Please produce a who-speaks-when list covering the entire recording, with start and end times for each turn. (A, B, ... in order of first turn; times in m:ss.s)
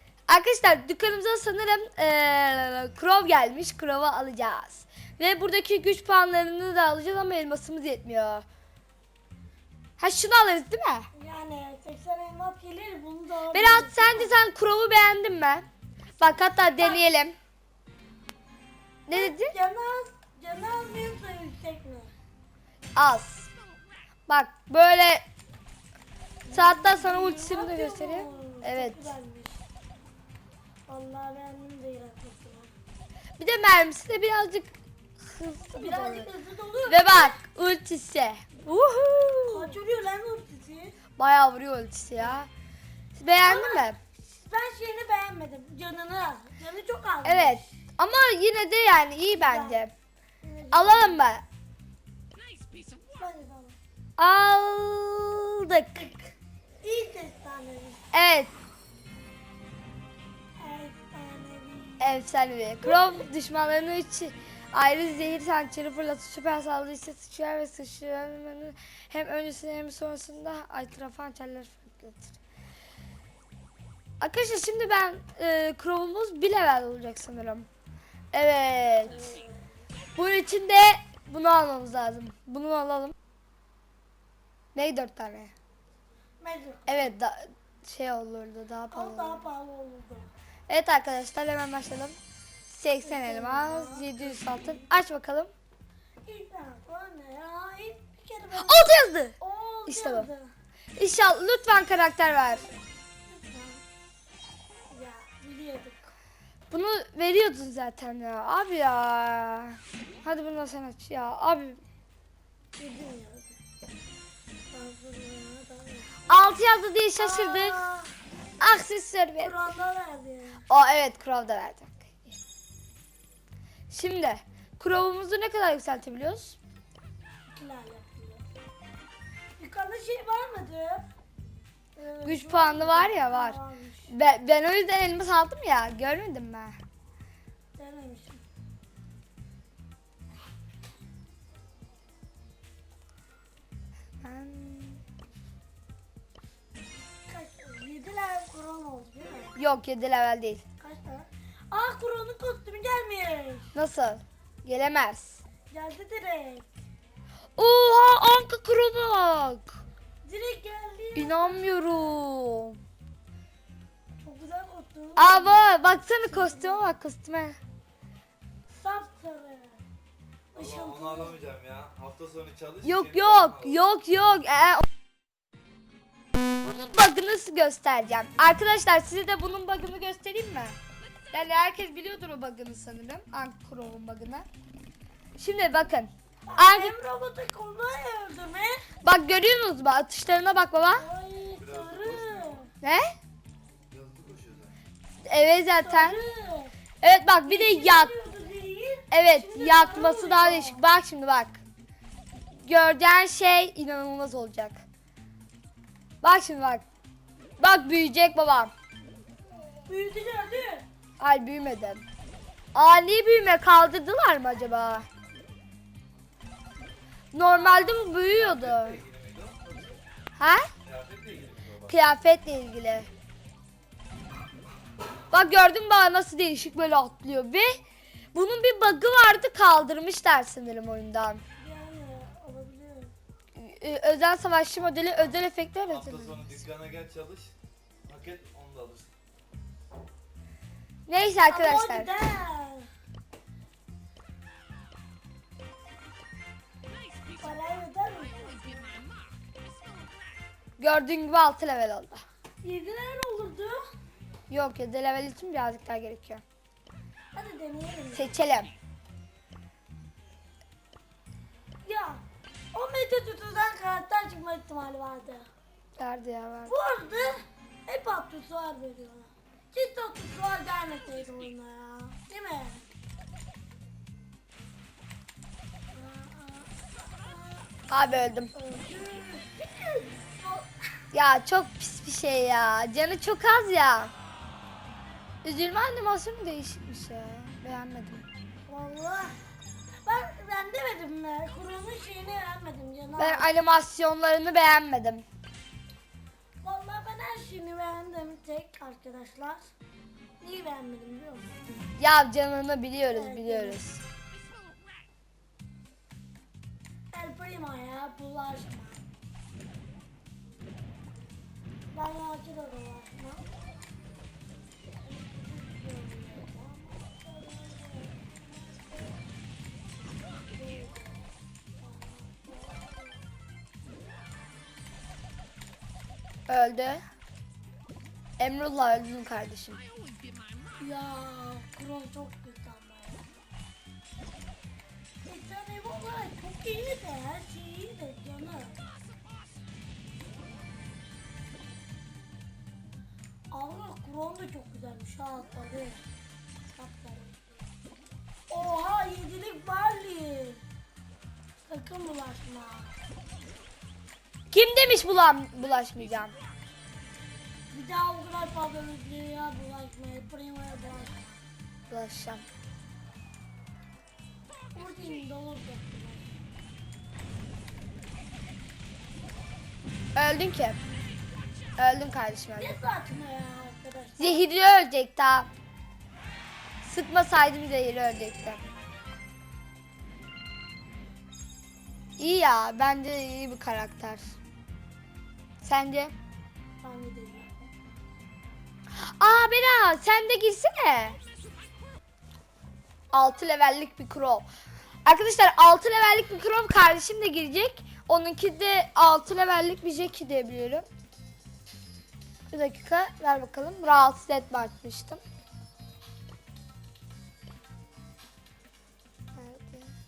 0:00.3-0:08.4 A
0:10.0-0:11.1 A
0:11.1-0:14.4 B
0:13.5-0:15.7 A
0:16.2-0:17.4 A
0:16.8-0:17.1 B
0:19.1-0:19.5 A
0:19.1-0:22.1 B
0:23.0-0:23.5 A
0:24.3-0:25.2 A
0:26.4-0:29.6 B
0:26.5-0:29.1 A
0:30.9-0:32.7 B
0:33.4-0:36.3 A
0:35.7-0:37.4 B
0:36.9-0:39.8 A
0:39.5-0:41.0 B
0:41.2-0:42.5 A
0:43.2-0:44.0 A
0:43.4-0:47.7 B
0:47.2-0:49.9 A
0:49.4-0:49.9 B
0:50.4-0:51.2 B
0:50.7-0:51.4 A
0:53.2-0:53.8 B
0:54.2-0:56.0 A
0:56.0-0:58.0 B
0:58.1-0:58.5 A
1:00.6-1:02.1 B
1:02.0-1:12.4 A
1:02.8-1:03.2 B
1:14.2-1:17.7 A
1:18.3-1:19.3 A
1:19.0-1:19.6 B
1:20.2-1:23.1 A
1:24.8-1:25.5 A
1:26.4-1:27.1 B
1:26.9-1:29.4 A
1:28.9-1:30.3 B
1:30.7-1:32.2 A
1:32.7-1:35.5 A
1:33.0-1:34.9 B
1:36.2-1:40.5 B
1:38.6-1:39.3 A
1:39.9-1:40.3 A
1:41.0-1:42.7 A
1:43.3-1:43.8 B
1:44.9-1:46.1 B
1:46.7-1:51.8 A
1:52.8-1:53.6 B
1:54.7-1:56.3 B
1:56.3-1:57.8 A
1:57.2-1:58.1 B
1:58.6-1:59.6 A
1:59.4-2:00.7 B
2:00.7-2:02.4 A
2:03.9-2:06.6 A
2:07.5-2:08.4 B
2:09.6-2:11.0 B
2:12.0-2:14.1 B
2:12.2-2:13.6 A
2:14.1-2:16.8 A
2:17.8-2:18.4 B
2:24.2-2:25.0 A
2:27.3-2:29.5 B
2:29.6-2:30.6 A
2:30.8-2:33.7 B
2:33.8-2:35.4 A
2:35.7-2:36.7 B
2:37.6-2:39.8 A
2:40.2-2:42.2 B
2:41.2-2:42.8 A
2:44.2-2:46.9 B
2:45.2-2:47.6 A
2:48.7-2:49.8 B
2:50.5-2:51.4 B
2:50.6-2:53.8 C
2:52.8-2:54.8 A
2:56.6-3:00.8 A
3:01.3-3:04.5 A
3:05.4-3:06.9 A
3:06.5-3:08.8 B
3:09.0-3:11.0 A
3:10.9-3:12.7 B
3:11.6-3:12.6 C
3:12.8-3:13.1 A
3:13.9-3:14.7 C
3:15.2-3:16.2 A
3:15.8-3:16.7 B
3:17.0-3:18.1 A
3:17.4-3:20.8 B
3:19.1-3:21.6 A
3:22.5-3:24.8 A
3:26.2-3:26.8 A
3:27.6-3:28.7 A
3:29.8-3:30.8 B
3:31.2-3:32.0 A
3:32.7-3:35.1 A
3:37.3-3:39.0 A
3:38.1-3:40.0 C
3:40.4-3:40.7 A
3:40.8-3:42.0 C
3:41.9-3:43.1 A
3:45.3-3:47.8 A
3:48.3-3:51.4 A
3:51.6-3:53.1 B
3:53.6-3:56.6 A
3:55.9-3:57.5 C
3:58.0-3:59.1 C
4:01.1-4:02.1 A
4:01.4-4:02.9 B
4:07.4-4:09.0 B
4:10.8-4:12.2 A
4:12.6-4:13.8 B
4:14.5-4:16.4 A
4:17.3-4:18.3 B
4:18.1-4:18.7 A
4:21.8-4:22.2 B
4:22.7-4:25.5 B
4:26.0-4:26.7 A
4:26.6-4:32.9 B
4:35.9-4:37.7 B
4:37.9-4:38.5 A
4:38.5-4:40.7 B
4:41.1-4:44.1 A
4:45.4-4:48.2 A
4:48.7-4:49.3 B
4:50.0-4:53.5 B
4:53.2-4:55.2 A
4:56.6-4:59.7 B
5:00.4-5:01.6 B
5:02.0-5:04.0 A
5:03.1-5:03.8 B
5:07.1-5:09.1 B
5:11.9-5:13.5 B
5:15.0-5:19.1 B
5:20.5-5:23.2 B
5:26.5-5:27.0 A
5:28.4-5:29.8 A
5:30.8-5:33.2 B
5:35.2-5:38.8 B
5:43.5-5:46.0 B
5:46.7-5:47.4 B
5:48.5-5:50.6 B
5:51.7-5:52.9 B
5:54.5-5:56.3 A
5:57.7-6:01.4 B
6:01.9-6:02.4 A
6:04.8-6:06.3 B
6:10.1-6:10.8 A
6:11.8-6:12.8 A
6:12.6-6:14.5 B
6:14.2-6:15.5 A
6:16.8-6:18.6 A
6:22.2-6:24.3 A
6:25.6-6:26.1 A
6:26.8-6:27.5 B
6:28.9-6:31.2 A
6:33.1-6:34.5 A
6:35.0-6:40.9 A
6:42.5-6:45.2 A
6:49.3-6:49.9 A